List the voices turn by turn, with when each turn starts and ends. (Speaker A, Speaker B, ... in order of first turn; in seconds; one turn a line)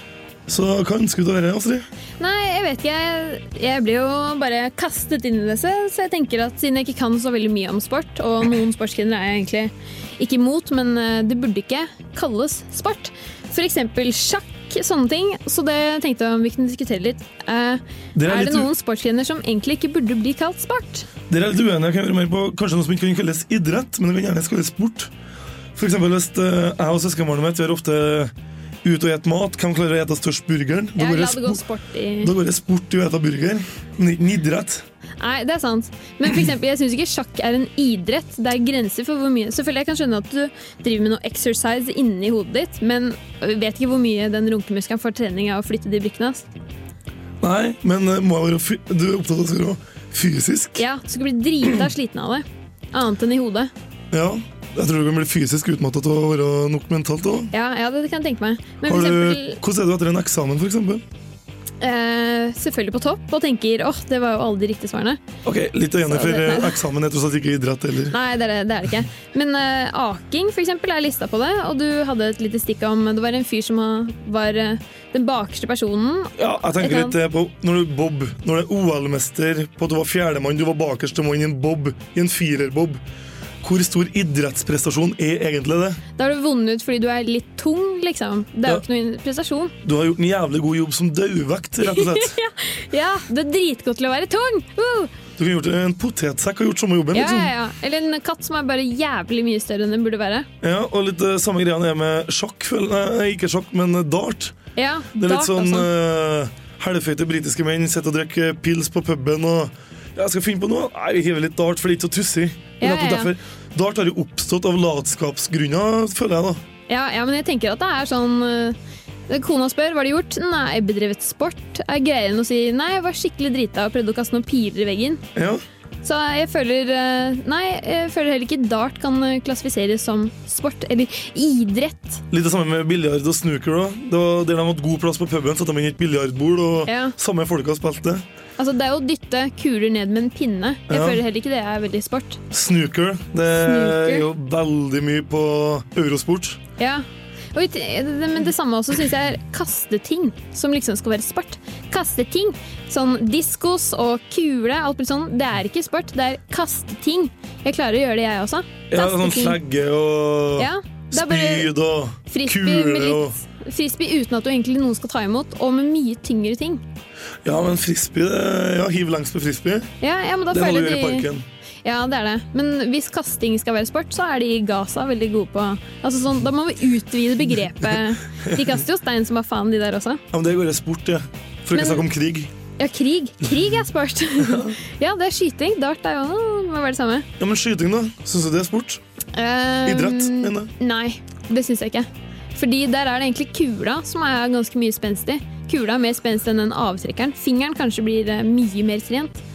Speaker A: 0.5-1.9
Speaker B: 2.2-21.1
Speaker A: 18.1-18.7
Speaker A: 21.3-25.1
Speaker A: 25.8-28.3
Speaker A: 28.8-31.6
Speaker B: 31.0-32.3
Speaker A: 32.2-34.8
Speaker B: 35.2-46.5
Speaker A: 47.4-50.8
Speaker B: 50.8-53.7
Speaker A: 54.1-57.5
Speaker B: 57.5-59.6
Speaker A: 58.9-61.0
Speaker B: 61.8-65.2
Speaker A: 65.4-68.1
Speaker B: 66.1-66.8
Speaker B: 68.1-77.2
Speaker A: 76.4-83.0
Speaker A: 83.6-86.0
Speaker B: 86.2-89.7
Speaker A: 89.8-92.3
Speaker B: 91.8-95.1
Speaker A: 95.4-97.5
Speaker B: 97.1-100.5
Speaker A: 100.6-104.5
Speaker B: 104.8-105.9
Speaker A: 105.1-116.6
Speaker B: 112.8-113.3
Speaker B: 116.9-118.8
Speaker B: 119.3-125.2
Speaker A: 125.3-125.6
Speaker B: 126.0-132.2
Speaker A: 132.3-138.2
Speaker B: 136.9-137.1
Speaker B: 138.6-142.4
Speaker A: 140.9-141.2
Speaker A: 142.5-146.6
Speaker B: 143.6-144.2
Speaker B: 146.8-159.6
Speaker A: 158.9-163.4
Speaker B: 160.6-161.7
Speaker B: 162.3-166.8
Speaker A: 167.4-169.9
Speaker B: 170.0-171.3
Speaker A: 170.5-171.4
Speaker B: 171.8-180.2
Speaker A: 180.3-182.5
Speaker B: 181.7-182.1
Speaker B: 182.8-187.3
Speaker A: 187.4-189.0
Speaker B: 189.3-199.4
Speaker A: 189.8-190.7